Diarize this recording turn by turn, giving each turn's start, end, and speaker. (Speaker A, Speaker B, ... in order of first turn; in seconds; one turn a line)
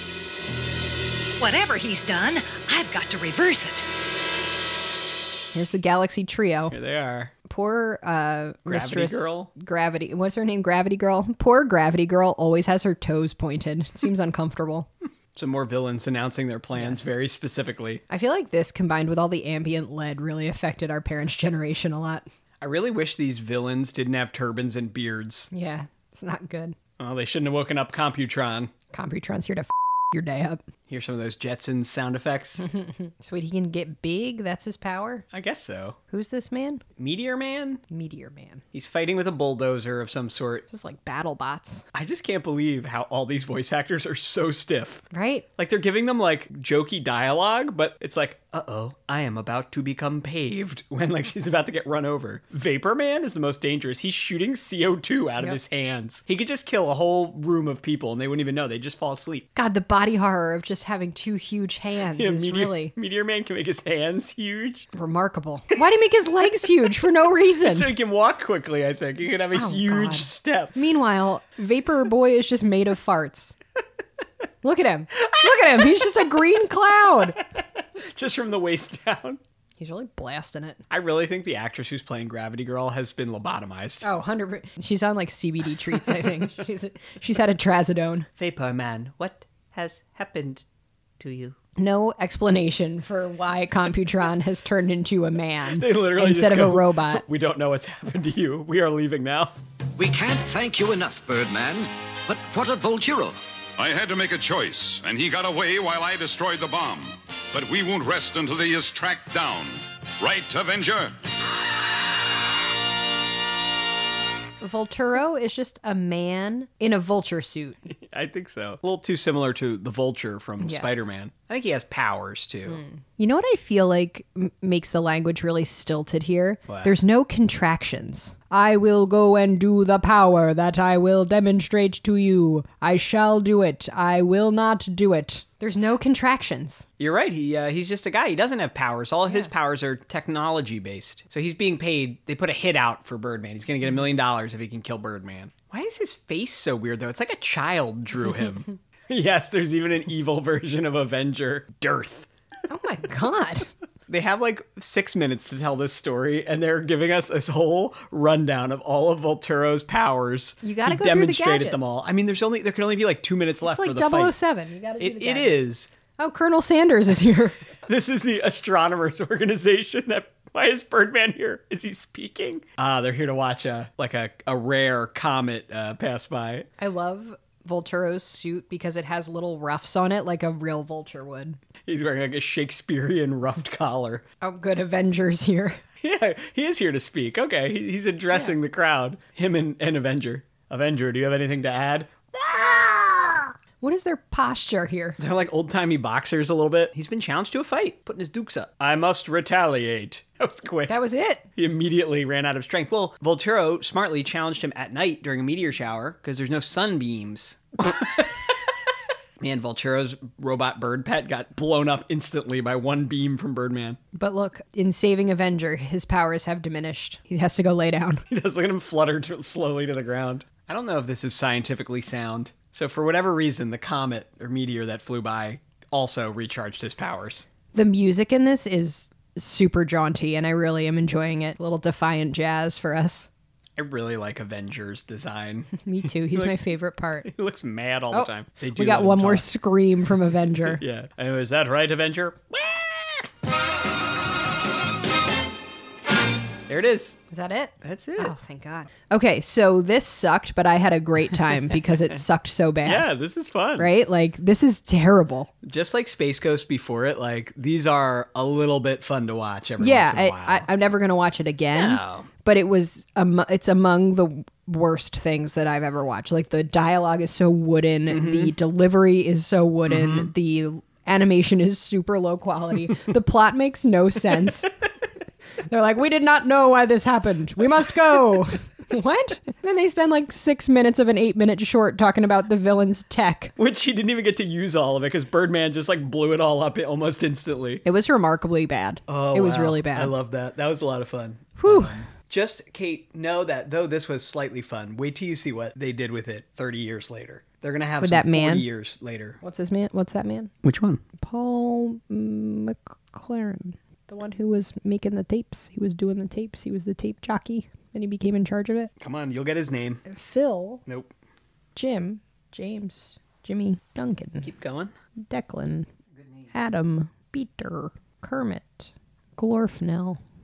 Speaker A: 1.4-3.9
Speaker B: 5.5-6.8
Speaker C: 6.7-7.3
Speaker B: 7.5-14.9
Speaker C: 8.7-9.5
Speaker C: 15.3-18.0
Speaker B: 16.7-17.1
Speaker B: 18.1-22.2
Speaker C: 22.6-25.5
Speaker B: 25.5-26.7
Speaker C: 27.0-28.7
Speaker B: 28.9-30.6
Speaker C: 30.9-32.6
Speaker B: 32.6-35.2
Speaker C: 35.3-36.0
Speaker B: 36.1-36.8
Speaker C: 37.0-37.8
Speaker B: 37.9-38.6
Speaker C: 38.7-40.6
Speaker B: 40.7-41.9
Speaker C: 41.9-45.0
Speaker B: 45.1-45.5
Speaker C: 45.6-59.5
Speaker B: 59.5-62.9
Speaker C: 62.1-64.9
Speaker B: 64.9-67.9
Speaker C: 67.6-70.8
Speaker B: 69.5-73.6
Speaker B: 74.6-77.4
Speaker C: 77.5-79.4
Speaker B: 79.8-80.8
Speaker C: 80.9-84.0
Speaker B: 84.0-88.3
Speaker C: 88.4-90.6
Speaker C: 91.2-91.6
Speaker B: 91.8-97.2
Speaker C: 95.7-99.5
Speaker D: 100.0-103.4
Speaker E: 103.8-111.1
Speaker B: 114.6-117.8
Speaker C: 117.8-122.8
Speaker B: 120.6-121.0
Speaker B: 122.7-136.8
Speaker C: 126.7-126.9
Speaker C: 137.0-152.3
Speaker B: 152.7-153.7
Speaker C: 154.1-164.3
Speaker B: 160.6-161.9
Speaker B: 163.6-167.6
Speaker C: 165.0-165.9
Speaker C: 167.8-176.7
Speaker B: 176.8-181.6
Speaker C: 181.9-184.2
Speaker B: 184.4-185.8
Speaker C: 186.0-193.5
Speaker B: 193.8-195.2
Speaker C: 195.2-201.0
Speaker B: 200.9-201.4
Speaker C: 201.6-208.5
Speaker C: 209.4-214.0
Speaker B: 214.1-218.2
Speaker C: 218.3-227.5
Speaker B: 227.7-233.3
Speaker C: 233.8-236.6
Speaker B: 235.8-237.3
Speaker C: 237.2-239.5
Speaker B: 238.1-240.8
Speaker C: 240.6-243.2
Speaker C: 246.7-247.2
Speaker B: 247.3-253.1
Speaker C: 247.8-248.3
Speaker C: 252.8-253.9
Speaker B: 253.8-255.5
Speaker C: 255.6-260.7
Speaker B: 259.8-274.7
Speaker C: 261.7-262.3
Speaker C: 268.1-268.5
Speaker C: 269.9-270.3
Speaker B: 275.7-283.5
Speaker C: 283.6-287.8
Speaker B: 287.8-290.1
Speaker C: 289.1-299.4
Speaker B: 291.6-292.0
Speaker B: 298.0-298.6
Speaker B: 299.4-300.5
Speaker C: 300.6-301.0
Speaker B: 301.2-308.9
Speaker C: 309.0-310.0
Speaker B: 310.1-310.8
Speaker C: 310.9-311.1
Speaker B: 311.7-314.5
Speaker C: 314.4-314.9
Speaker B: 315.3-315.9
Speaker B: 316.5-320.2